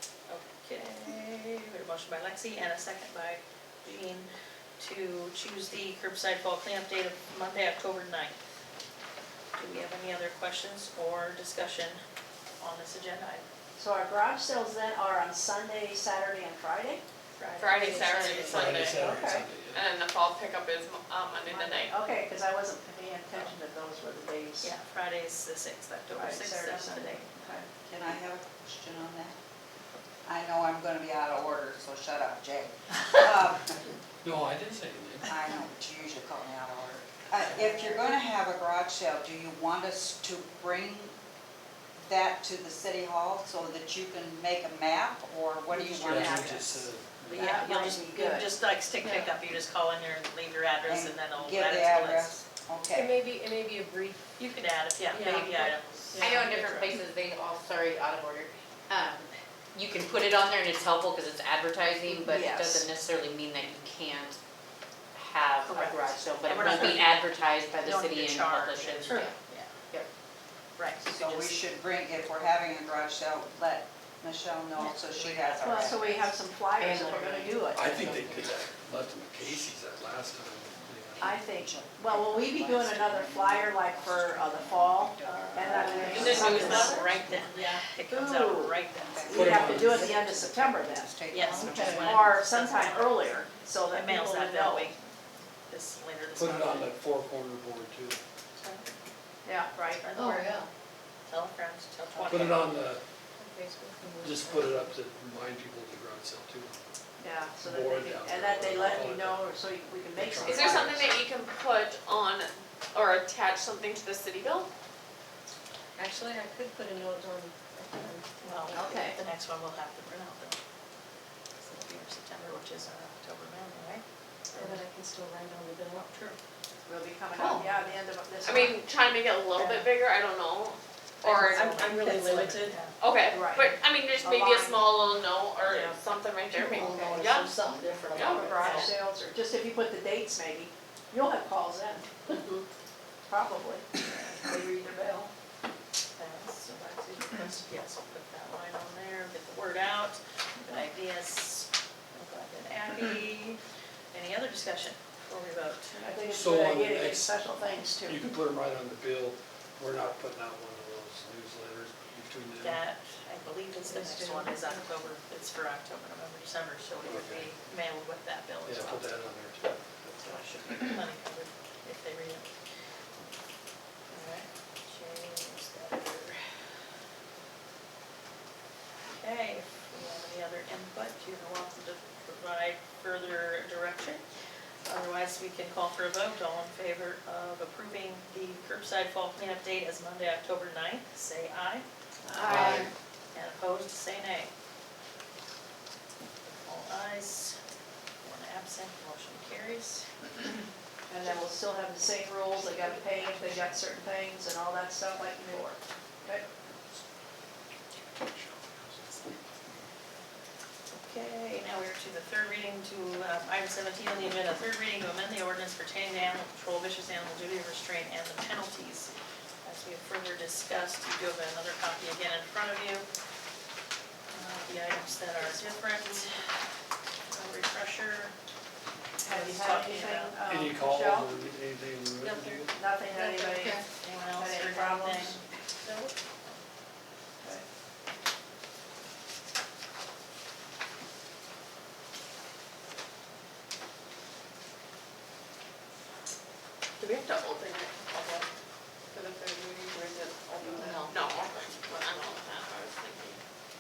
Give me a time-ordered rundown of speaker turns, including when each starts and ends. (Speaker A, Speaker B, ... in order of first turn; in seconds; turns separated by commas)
Speaker A: 0.3-4.3, Speaker A: 4.8-8.4, Speaker A: 9.6-12.0, Speaker A: 12.6-13.4, Speaker B: 13.8-17.0, Speaker A: 17.4-18.3, Speaker C: 17.6-19.1, Speaker D: 17.8-18.7, Speaker E: 18.4-19.9, Speaker B: 18.9-19.5, Speaker C: 19.6-21.9, Speaker B: 21.5-24.7, Speaker A: 24.6-27.3, Speaker B: 26.1-27.7, Speaker F: 27.9-29.4, Speaker F: 30.3-33.9, Speaker E: 34.2-35.3, Speaker F: 35.3-41.2, Speaker F: 42.0-46.6, Speaker A: 45.7-52.3, Speaker E: 45.9-47.5, Speaker B: 47.3-48.5, Speaker D: 49.0-49.3, Speaker F: 50.9-53.2, Speaker D: 52.9-54.2, Speaker A: 54.4-56.9, Speaker D: 55.1-56.5, Speaker G: 56.2-64.4, Speaker B: 62.1-62.9, Speaker G: 65.1-69.4, Speaker A: 65.7-67.2, Speaker A: 67.8-69.7, Speaker A: 70.8-71.6, Speaker F: 71.0-76.3, Speaker B: 75.6-78.1, Speaker G: 77.0-77.6, Speaker E: 77.7-81.4, Speaker B: 81.2-87.2, Speaker F: 81.2-86.4, Speaker A: 85.2-89.6, Speaker D: 86.0-86.7, Speaker C: 86.1-87.0, Speaker D: 87.5-87.9, Speaker B: 88.1-91.1, Speaker F: 89.0-92.3, Speaker E: 89.3-90.1, Speaker A: 91.3-95.0, Speaker D: 91.4-92.1, Speaker B: 92.0-94.9, Speaker A: 95.7-96.9, Speaker E: 96.4-98.2, Speaker A: 98.6-98.9, Speaker B: 99.5-100.6, Speaker A: 100.0-100.6, Speaker D: 100.4-100.7, Speaker A: 101.3-102.7, Speaker B: 102.2-102.5, Speaker E: 102.3-103.0, Speaker D: 103.4-104.9, Speaker E: 104.2-106.8, Speaker B: 107.2-111.0, Speaker E: 107.6-109.5, Speaker E: 110.1-111.2, Speaker C: 110.5-114.7, Speaker D: 116.0-119.3, Speaker A: 118.4-120.6, Speaker B: 118.7-119.2, Speaker A: 121.6-124.8, Speaker D: 124.5-126.1, Speaker A: 125.9-126.4, Speaker B: 126.9-128.8, Speaker C: 128.4-131.9, Speaker A: 129.6-129.9, Speaker A: 131.2-132.9, Speaker D: 131.3-132.9, Speaker C: 132.9-139.0, Speaker B: 133.3-134.9, Speaker B: 135.7-136.0, Speaker D: 136.7-138.6, Speaker B: 136.8-137.4, Speaker B: 138.1-142.4, Speaker C: 142.4-142.6, Speaker B: 143.3-145.3, Speaker A: 146.2-153.6, Speaker A: 154.1-156.0, Speaker B: 156.0-158.2, Speaker E: 156.3-157.4, Speaker E: 158.1-162.8, Speaker A: 162.6-169.1, Speaker D: 163.8-164.8, Speaker E: 167.0-167.5, Speaker E: 168.7-170.1, Speaker A: 170.1-172.5, Speaker A: 174.1-176.4, Speaker A: 179.1-184.2, Speaker A: 184.8-191.9, Speaker B: 192.2-192.9, Speaker A: 192.4-194.5, Speaker E: 192.5-192.8, Speaker A: 196.4-197.6, Speaker A: 198.2-200.1, Speaker B: 201.1-206.4, Speaker A: 210.9-219.1, Speaker A: 219.6-223.1, Speaker A: 224.3-226.6, Speaker D: 225.5-226.2, Speaker A: 227.3-228.3, Speaker B: 229.2-231.4, Speaker A: 229.2-230.3, Speaker E: 230.5-232.7, Speaker D: 232.2-233.8, Speaker B: 232.7-233.8, Speaker A: 234.0-235.4, Speaker B: 234.3-235.4, Speaker D: 235.8-236.1, Speaker C: 247.0-248.5, Speaker C: 249.1-253.4, Speaker D: 250.8-251.2